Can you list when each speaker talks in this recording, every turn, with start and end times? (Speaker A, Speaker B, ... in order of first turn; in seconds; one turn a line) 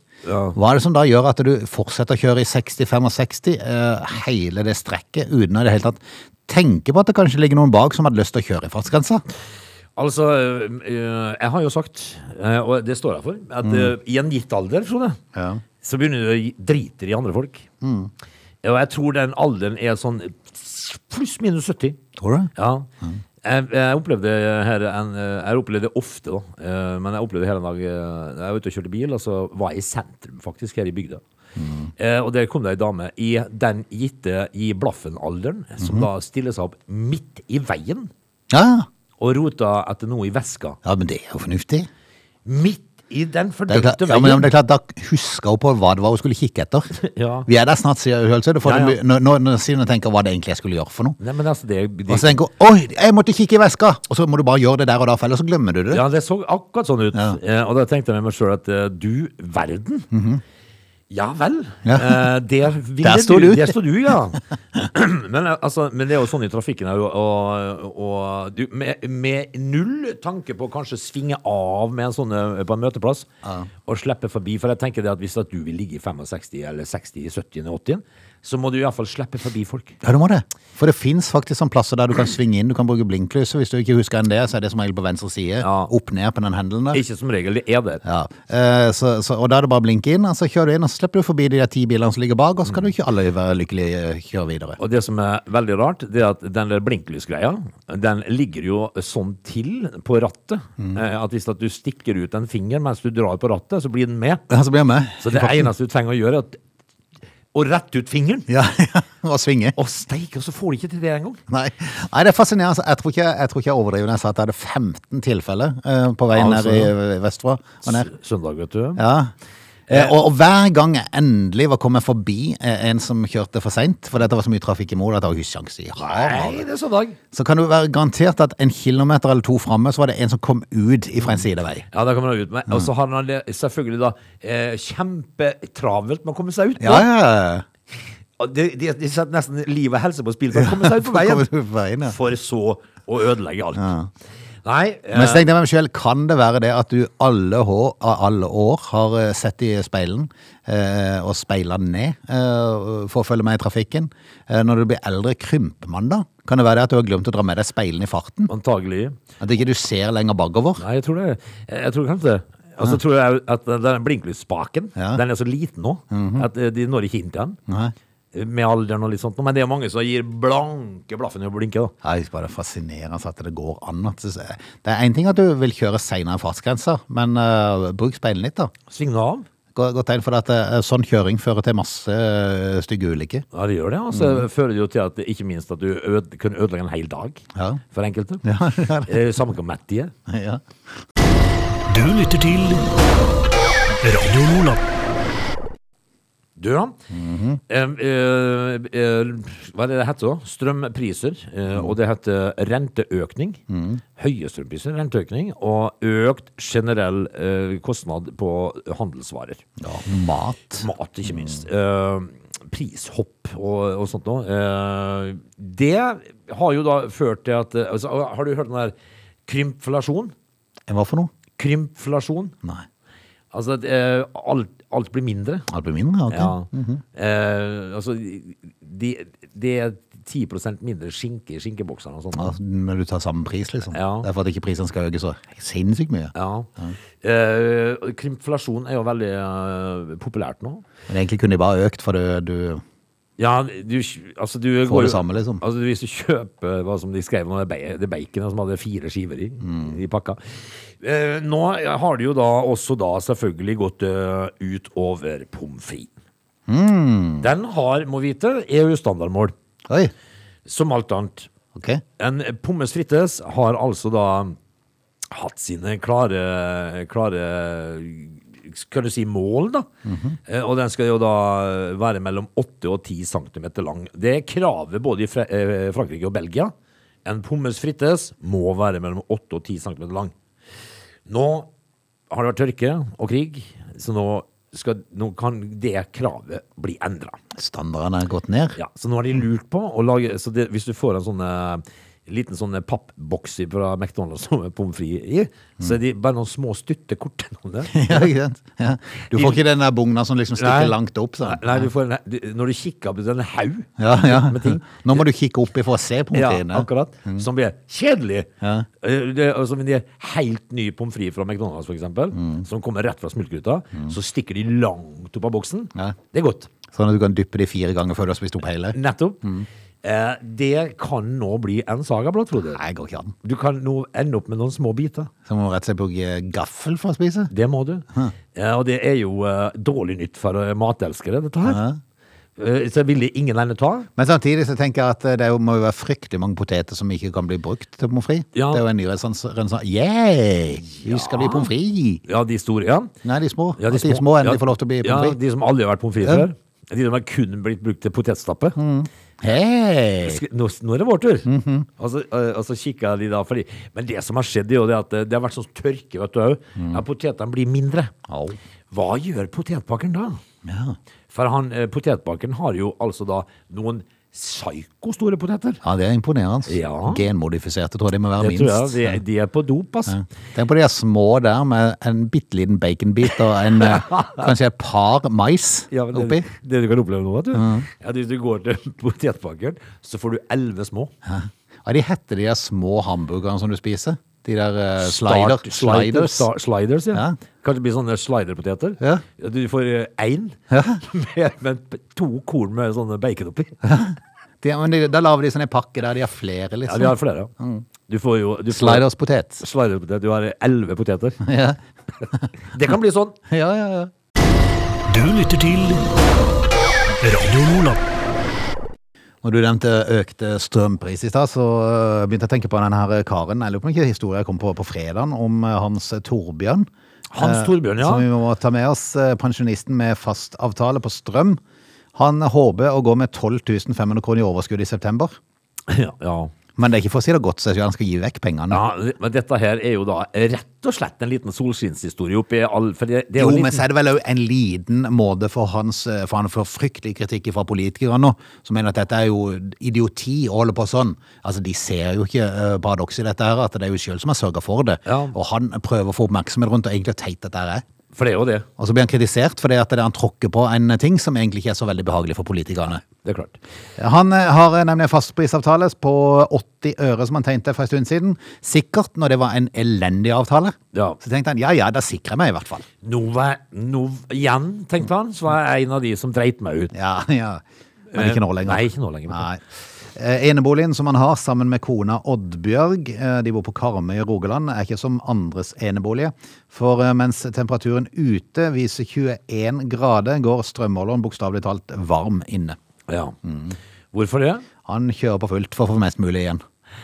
Speaker A: 0.2-0.6
Speaker B: 0.6-9.2
Speaker A: 10.0-15.2
Speaker B: 13.6-13.9
Speaker B: 15.3-15.6
Speaker A: 15.8-17.7
Speaker B: 17.8-18.1
Speaker A: 18.6-22.0
Speaker B: 22.2-22.5
Speaker A: 22.6-22.9
Speaker A: 23.4-31.2
Speaker B: 31.6-31.9
Speaker A: 32.0-38.1
Speaker B: 35.8-36.1
Speaker B: 38.5-38.9
Speaker A: 39.2-40.8
Speaker B: 40.8-41.9
Speaker A: 42.5-44.5
Speaker B: 43.7-46.9
Speaker A: 47.0-47.5
Speaker B: 47.5-51.2
Speaker A: 48.6-49.0
Speaker A: 51.2-52.3
Speaker B: 52.1-56.0
Speaker A: 55.9-60.1
Speaker B: 60.1-60.4
Speaker A: 61.1-73.3
Speaker B: 61.9-62.2
Speaker B: 63.0-63.8
Speaker A: 73.8-80.0
Speaker B: 80.0-87.0
Speaker A: 85.6-85.9
Speaker A: 86.9-88.0
Speaker B: 88.0-94.8
Speaker A: 94.8-104.5
Speaker B: 104.5-105.7
Speaker A: 105.2-106.6
Speaker A: 107.5-108.5
Speaker B: 108.5-109.8
Speaker A: 109.8-111.4
Speaker B: 111.5-118.1
Speaker A: 116.3-116.9
Speaker A: 117.8-119.0
Speaker B: 119.0-119.3
Speaker A: 119.9-120.2
Speaker B: 119.9-126.7
Speaker A: 126.0-127.2
Speaker B: 127.3-131.9
Speaker A: 131.9-137.1
Speaker B: 136.8-137.7
Speaker A: 138.4-141.5
Speaker B: 140.5-142.2
Speaker A: 142.0-143.9
Speaker B: 143.8-144.1
Speaker A: 144.6-145.5
Speaker B: 145.1-158.5
Speaker A: 158.5-159.2
Speaker B: 159.4-160.8
Speaker A: 160.8-167.6
Speaker B: 165.0-165.2
Speaker B: 166.1-166.5
Speaker B: 167.7-167.9
Speaker A: 168.3-171.9
Speaker B: 172.0-178.7
Speaker A: 178.9-179.5
Speaker B: 179.8-183.4
Speaker A: 183.5-188.4
Speaker B: 184.1-184.4
Speaker B: 187.6-187.8
Speaker B: 188.4-189.2
Speaker A: 189.1-190.1
Speaker B: 190.3-190.6
Speaker C: 191.9-192.9
Speaker C: 194.0-194.8
Speaker A: 196.6-197.0
Speaker B: 197.1-197.6
Speaker A: 197.7-203.6
Speaker B: 203.7-204.0
Speaker A: 204.2-209.6
Speaker B: 209.8-211.6
Speaker A: 210.7-218.9
Speaker A: 219.5-220.3
Speaker B: 220.9-221.3
Speaker A: 221.6-222.6
Speaker A: 223.5-225.7
Speaker B: 225.7-227.0
Speaker A: 226.3-232.6
Speaker B: 232.3-237.0
Speaker A: 233.9-234.3
Speaker A: 236.3-240.8
Speaker B: 241.1-242.8
Speaker A: 243.4-256.1
Speaker B: 244.9-245.6
Speaker B: 249.6-249.9
Speaker B: 256.7-257.5
Speaker A: 257.4-259.5
Speaker A: 260.7-261.5
Speaker B: 261.8-262.0
Speaker A: 262.2-264.6
Speaker A: 265.3-269.9
Speaker B: 270.1-270.4
Speaker A: 270.5-276.7
Speaker A: 277.2-280.3
Speaker A: 281.3-281.7
Speaker A: 282.3-287.4
Speaker B: 287.6-288.8
Speaker A: 288.8-298.3
Speaker B: 297.9-301.9
Speaker A: 299.3-299.6
Speaker A: 300.6-305.2
Speaker B: 304.0-307.4
Speaker A: 306.3-316.7
Speaker B: 308.6-308.9
Speaker B: 312.4-312.6
Speaker B: 316.9-319.7
Speaker A: 318.9-319.4
Speaker A: 320.0-322.8
Speaker B: 322.7-323.3
Speaker A: 323.4-325.3
Speaker B: 325.5-327.5
Speaker A: 327.5-331.8
Speaker B: 331.6-332.0
Speaker A: 332.6-334.1
Speaker B: 334.2-342.2
Speaker A: 338.5-338.8
Speaker A: 340.9-341.7
Speaker A: 342.3-343.1
Speaker B: 343.2-345.4
Speaker A: 343.8-348.8
Speaker B: 348.8-350.4
Speaker A: 350.2-358.1
Speaker B: 351.4-351.9
Speaker B: 356.8-357.0
Speaker B: 358.3-358.6
Speaker A: 358.9-360.4
Speaker B: 360.6-361.0
Speaker A: 361.3-365.8
Speaker B: 365.8-369.2
Speaker A: 366.7-367.2
Speaker A: 368.4-370.2
Speaker B: 370.1-376.5
Speaker A: 373.4-374.5
Speaker A: 375.9-381.1
Speaker B: 377.5-377.9
Speaker B: 381.2-386.5
Speaker A: 385.0-393.8
Speaker B: 390.7-391.0
Speaker B: 393.9-397.9
Speaker A: 396.9-397.5
Speaker A: 398.1-399.1
Speaker B: 398.7-399.6
Speaker A: 399.6-401.4
Speaker B: 401.4-402.5
Speaker A: 402.7-403.4
Speaker B: 403.5-404.1
Speaker C: 405.1-406.1
Speaker C: 407.2-408.0
Speaker B: 409.4-416.9
Speaker A: 417.3-418.3
Speaker B: 417.4-421.6
Speaker B: 422.1-425.4
Speaker A: 425.9-426.5
Speaker B: 426.8-428.8
Speaker A: 428.7-433.9
Speaker B: 433.4-447.9
Speaker A: 445.1-445.3
Speaker A: 448.1-448.7
Speaker B: 448.8-453.1
Speaker A: 453.0-453.6
Speaker B: 454.0-462.9
Speaker A: 460.9-461.2
Speaker A: 463.0-466.9
Speaker B: 466.9-482.8
Speaker A: 468.1-469.5
Speaker A: 483.1-483.4
Speaker B: 483.4-483.8
Speaker A: 484.1-484.6
Speaker B: 484.9-486.6